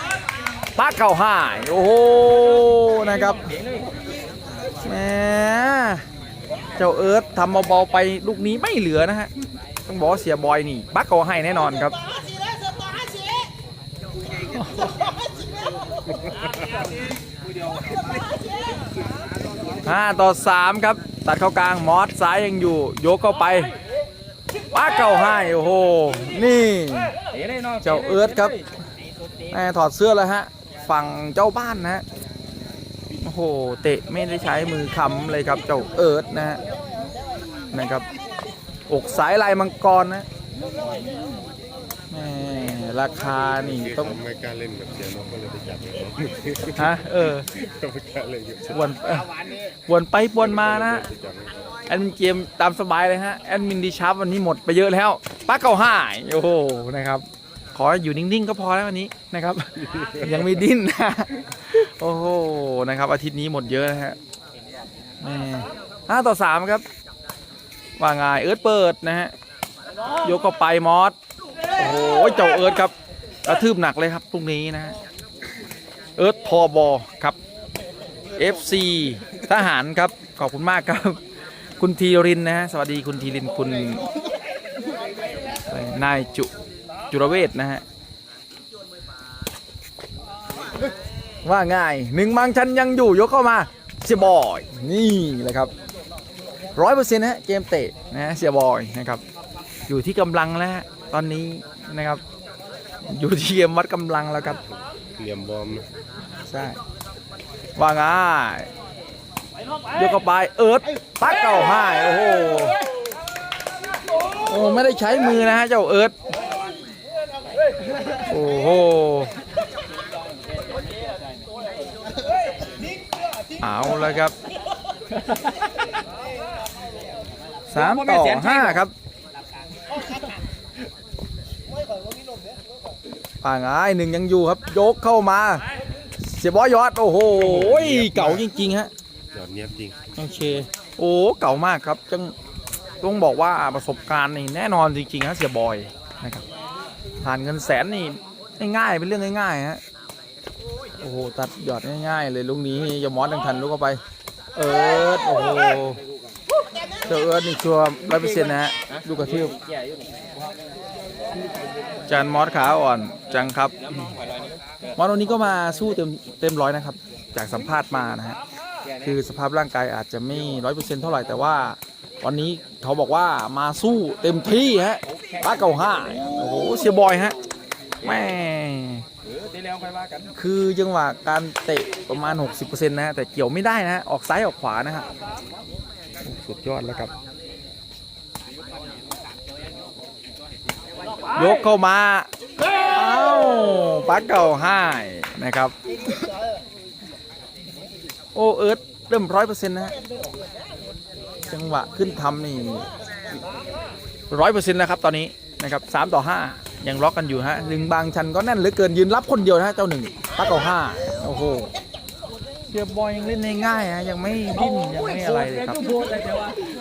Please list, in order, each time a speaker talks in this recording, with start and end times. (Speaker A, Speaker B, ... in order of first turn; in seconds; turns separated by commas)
Speaker A: 0.8-3.5, Speaker A: 4.8-6.0, Speaker A: 6.8-9.3, Speaker A: 9.9-12.0, Speaker A: 14.5-14.9, Speaker A: 19.8-23.7, Speaker A: 24.7-27.1, Speaker B: 27.3-28.5, Speaker A: 27.8-28.6, Speaker A: 29.5-32.0, Speaker A: 33.2-36.6, Speaker A: 37.7-38.1, Speaker A: 38.9-40.2, Speaker A: 42.1-44.2, Speaker C: 43.6-47.0, Speaker A: 46.8-47.5, Speaker C: 47.5-48.9, Speaker A: 48.7-49.3, Speaker A: 49.9-51.0, Speaker C: 50.4-51.7, Speaker A: 51.9-64.2, Speaker A: 65.2-66.8, Speaker A: 68.0-69.3, Speaker A: 70.2-71.2, Speaker A: 71.8-72.9, Speaker A: 73.4-75.0, Speaker A: 76.2-77.4, Speaker A: 78.4-81.2, Speaker A: 81.8-84.0, Speaker A: 85.7-86.5, Speaker A: 87.1-87.8, Speaker A: 91.4-95.7, Speaker A: 96.8-99.2, Speaker A: 99.9-102.2, Speaker A: 103.1-104.6, Speaker C: 104.7-105.8, Speaker A: 106.5-106.8, Speaker A: 107.8-108.7, Speaker A: 109.9-112.8, Speaker A: 114.5-116.1, Speaker A: 118.3-119.3, Speaker A: 123.6-124.3, Speaker B: 125.2-125.5, Speaker A: 127.7-128.9, Speaker B: 127.7-128.8, Speaker A: 133.4-135.6, Speaker A: 136.2-138.9, Speaker C: 137.3-138.5, Speaker C: 139.3-140.0, Speaker A: 140.2-142.3, Speaker A: 143.0-146.4, Speaker A: 147.2-149.8, Speaker A: 151.0-154.0, Speaker A: 154.6-156.0, Speaker A: 157.1-159.5, Speaker A: 162.1-163.8, Speaker A: 165.0-168.4, Speaker A: 169.0-177.4, Speaker A: 178.0-179.0, Speaker B: 179.3-180.3, Speaker A: 180.4-185.1, Speaker A: 186.2-187.1, Speaker A: 191.3-192.3, Speaker A: 192.8-195.7, Speaker A: 198.3-199.9, Speaker A: 201.5-202.9, Speaker A: 204.3-211.7, Speaker A: 212.7-215.8, Speaker B: 214.8-216.6